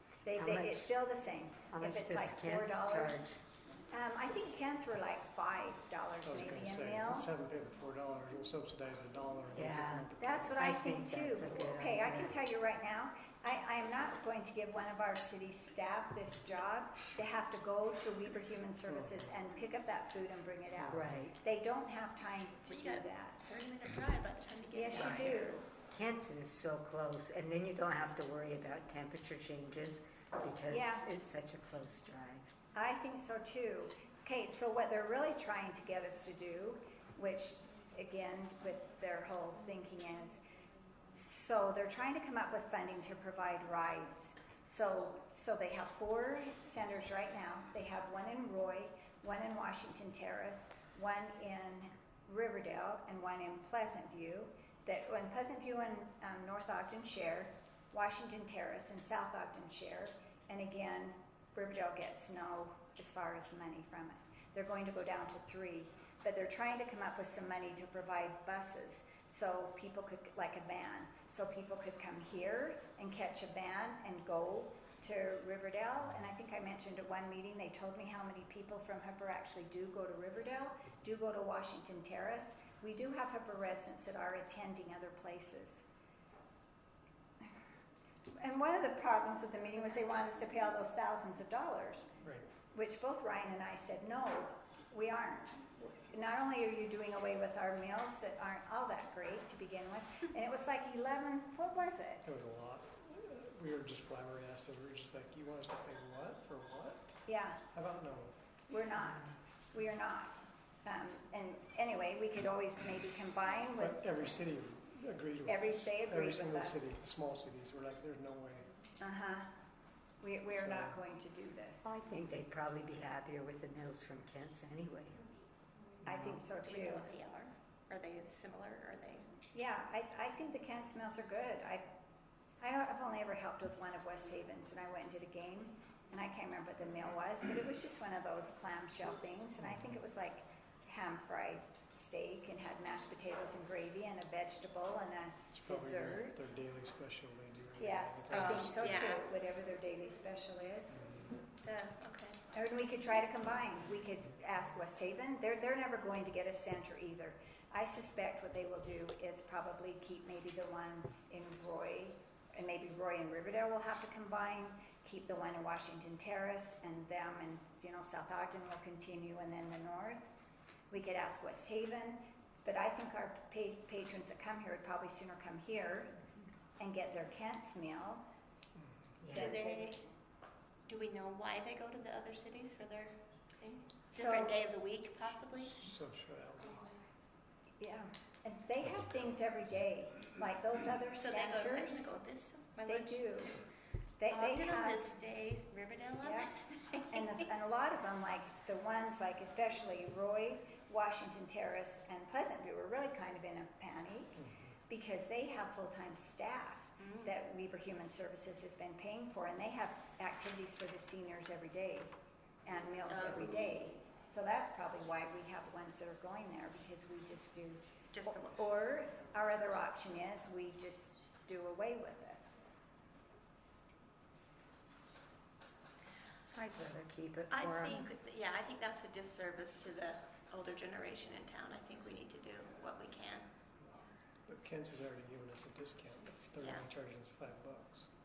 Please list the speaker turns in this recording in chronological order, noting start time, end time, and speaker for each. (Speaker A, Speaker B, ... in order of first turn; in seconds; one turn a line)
Speaker A: 0.2-3.2
Speaker B: 0.3-0.9
Speaker B: 1.7-3.4
Speaker A: 3.9-7.3
Speaker C: 6.2-10.6
Speaker B: 9.5-12.4
Speaker A: 10.2-23.4
Speaker B: 20.8-21.4
Speaker D: 22.7-25.5
Speaker A: 24.7-25.7
Speaker B: 25.9-32.5
Speaker A: 30.7-31.1
Speaker A: 32.7-40.4
Speaker A: 41.1-85.8
Speaker A: 88.4-92.1
Speaker C: 92.2-92.5
Speaker A: 92.7-102.3
Speaker C: 102.2-107.2
Speaker A: 107.3-107.6
Speaker C: 107.7-108.3
Speaker A: 108.7-114.2
Speaker C: 113.8-118.7
Speaker A: 115.4-116.9
Speaker A: 119.0-119.5
Speaker A: 120.2-121.9
Speaker C: 120.5-121.0
Speaker B: 121.8-125.2
Speaker B: 126.0-126.4
Speaker A: 126.0-127.1
Speaker D: 126.6-129.3
Speaker A: 129.5-131.9
Speaker A: 132.6-146.5
Speaker C: 139.6-140.0
Speaker C: 145.5-148.9
Speaker A: 147.8-151.0
Speaker D: 148.3-149.3
Speaker C: 150.9-151.4
Speaker D: 151.6-152.4
Speaker A: 152.5-170.3
Speaker A: 170.9-176.1
Speaker A: 176.8-178.2
Speaker B: 179.2-179.6
Speaker A: 179.3-180.1
Speaker D: 179.3-180.0
Speaker D: 180.9-185.8
Speaker A: 184.1-184.7
Speaker C: 185.8-186.9
Speaker A: 187.8-192.1
Speaker D: 191.2-193.6
Speaker A: 192.8-193.6
Speaker A: 194.2-195.1
Speaker D: 194.3-197.4
Speaker A: 196.2-196.5
Speaker A: 197.1-204.4
Speaker C: 204.3-204.7
Speaker A: 204.9-222.4
Speaker D: 207.0-207.3
Speaker D: 213.1-213.8
Speaker D: 218.1-218.6
Speaker B: 226.5-228.1
Speaker D: 227.5-233.5
Speaker C: 234.4-238.1